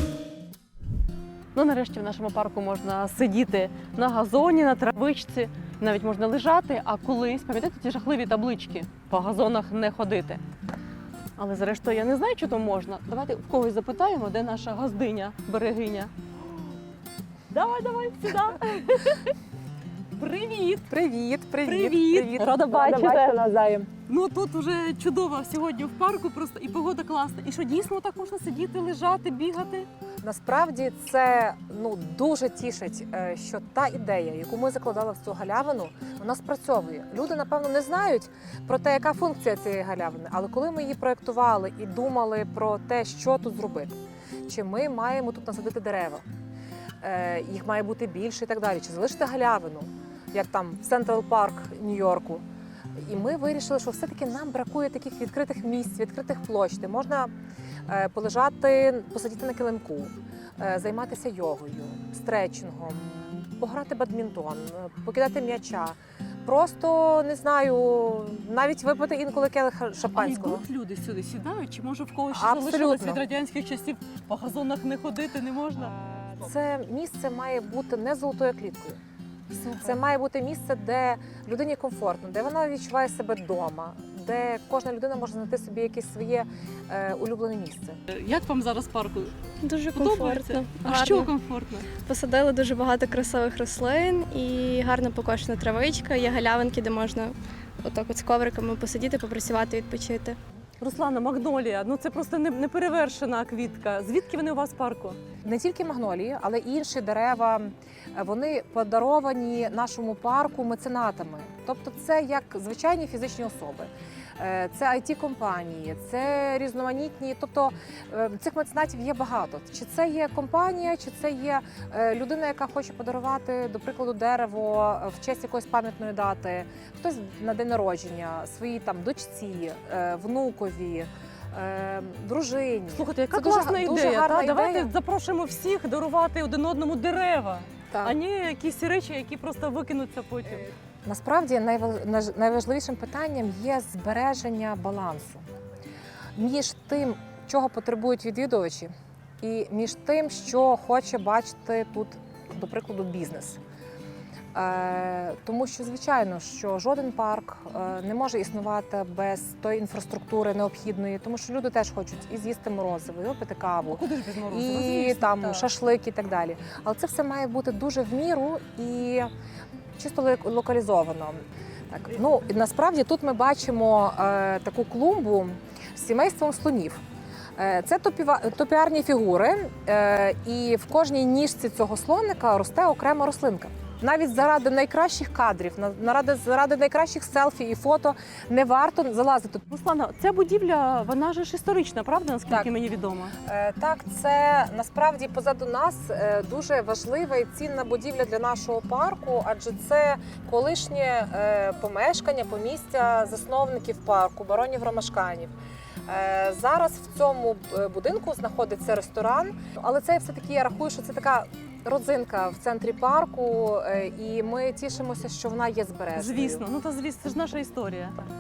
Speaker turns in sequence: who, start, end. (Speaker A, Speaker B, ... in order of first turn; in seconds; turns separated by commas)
Speaker A: 1.5-10.4, Speaker A: 11.4-16.1, Speaker A: 17.5-19.3, Speaker A: 20.2-20.9, Speaker B: 20.9-23.9, Speaker A: 21.6-23.4, Speaker A: 24.1-29.9, Speaker B: 30.2-46.2, Speaker B: 47.0-52.4, Speaker B: 53.0-57.3, Speaker B: 57.9-70.6, Speaker A: 70.1-75.9, Speaker B: 72.3-73.2, Speaker B: 75.8-79.0, Speaker A: 79.5-80.0, Speaker B: 79.8-88.0, Speaker A: 88.1-89.4, Speaker C: 89.6-91.3, Speaker A: 89.9-91.9, Speaker C: 92.0-100.4, Speaker A: 100.8-105.2, Speaker B: 105.5-134.9, Speaker A: 132.9-140.7, Speaker B: 137.9-138.2, Speaker B: 141.1-145.4, Speaker B: 146.3-153.6, Speaker B: 154.5-169.3, Speaker A: 163.8-165.7, Speaker B: 170.0-171.4, Speaker B: 171.9-177.0, Speaker B: 177.6-189.6, Speaker A: 189.7-193.3, Speaker B: 193.4-205.5, Speaker B: 206.1-216.6, Speaker A: 216.2-218.2